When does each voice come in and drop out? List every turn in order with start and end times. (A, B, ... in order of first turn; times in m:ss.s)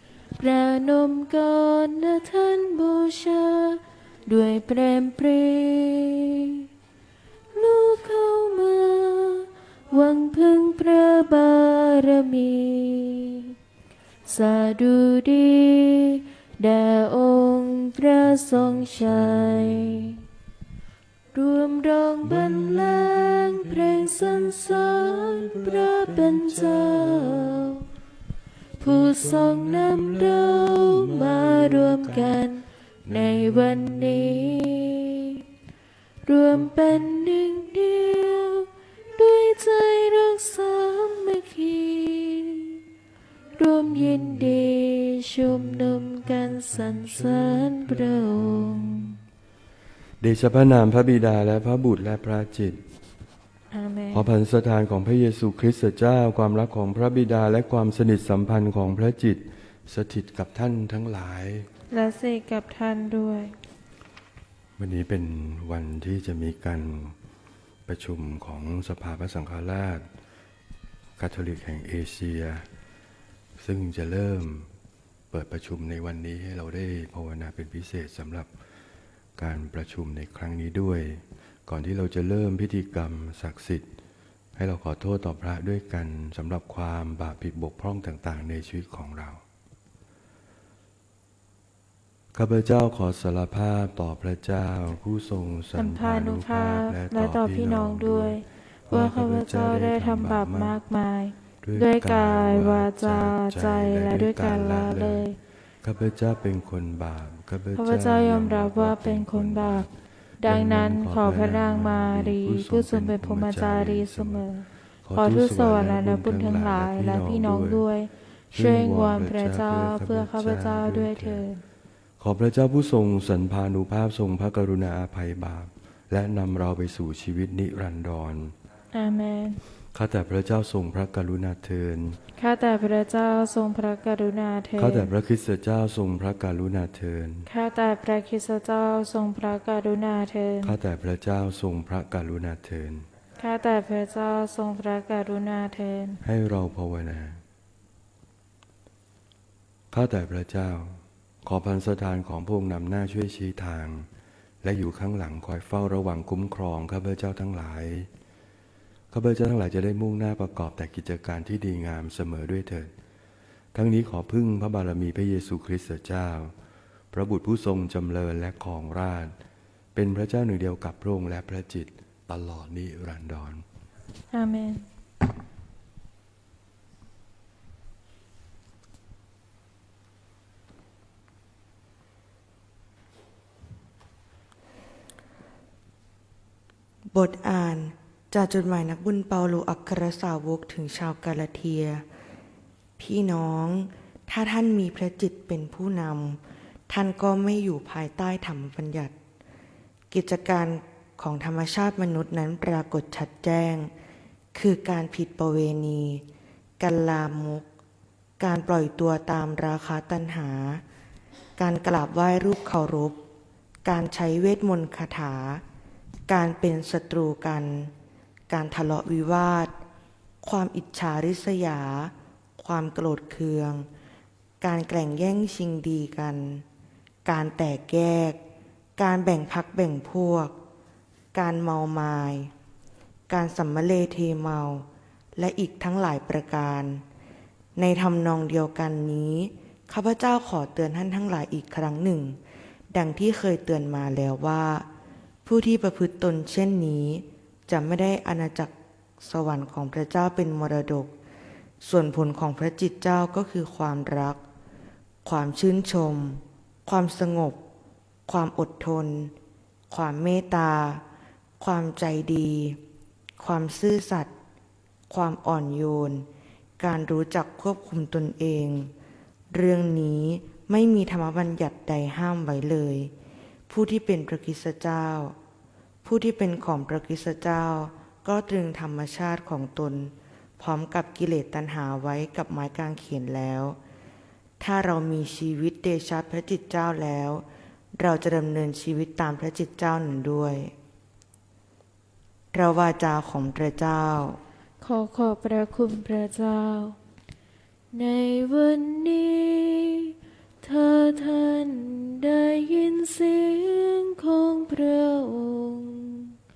0:00.4-0:06.6 A
0:07.5-0:13.5 A
0:14.3-0:20.2 A
0:18.7-0:20.1 B
0:21.3-0:27.8 A
0:22.2-0:27.7 B
0:28.8-0:32.4 B
0:28.8-0:35.4 A
0:33.0-0:34.7 B
0:36.2-0:42.8 A
0:43.6-0:49.2 A
0:47.2-0:48.0 B
0:50.2-0:52.8 B
0:53.7-0:54.3 A
0:54.1-1:01.7 B
1:01.9-1:03.5 A
1:04.8-1:07.1 B
1:07.9-1:10.0 B
1:11.2-1:12.7 B
1:13.6-1:14.7 B
1:15.3-1:18.5 B
1:19.4-1:23.9 B
1:24.6-1:29.4 B
1:32.3-1:40.8 B
1:35.7-1:45.4 A
1:41.6-1:45.3 B
1:45.8-1:54.4 B
1:47.7-1:49.9 A
1:50.4-2:01.6 A
1:55.0-1:57.8 B
1:58.5-2:01.4 B
2:02.2-2:08.5 B
2:08.9-2:09.6 A
2:09.9-2:12.2 B
2:12.4-2:15.1 A
2:14.8-2:17.5 B
2:17.5-2:20.8 A
2:20.6-2:23.1 B
2:23.4-2:26.2 A
2:26.2-2:27.4 B
2:29.9-2:34.1 B
2:34.6-2:38.1 B
2:39.1-2:42.9 B
2:43.7-2:46.5 B
2:47.1-2:49.3 B
2:49.9-2:53.6 B
2:54.3-2:54.9 A
3:07.1-3:12.0 C
3:13.0-3:16.4 C
3:16.9-3:19.1 C
3:20.1-3:23.9 C
3:24.5-3:26.2 C
3:26.8-3:27.6 C
3:28.4-3:30.8 C
3:31.6-3:33.2 C
3:33.8-3:35.6 C
3:36.3-3:37.9 C
3:38.5-3:39.8 C
3:40.4-3:43.9 C
3:44.6-3:46.6 C
3:47.2-3:48.4 C
3:49.0-3:50.5 C
3:51.3-3:52.5 C
3:53.3-3:57.0 C
3:57.8-4:02.4 C
4:02.9-4:04.8 C
4:05.4-4:11.1 C
4:11.8-4:14.4 C
4:15.2-4:17.6 C
4:18.3-4:19.3 C
4:19.9-4:21.0 C
4:21.6-4:22.8 C
4:23.4-4:24.3 C
4:25.1-4:26.3 C
4:26.8-4:28.9 C
4:29.5-4:33.1 C
4:33.7-4:35.3 C
4:36.0-4:43.8 C
4:44.6-4:47.4 C
4:48.0-4:50.7 C
4:52.5-4:54.4 C
4:54.8-4:57.0 A
4:57.9-5:06.3 A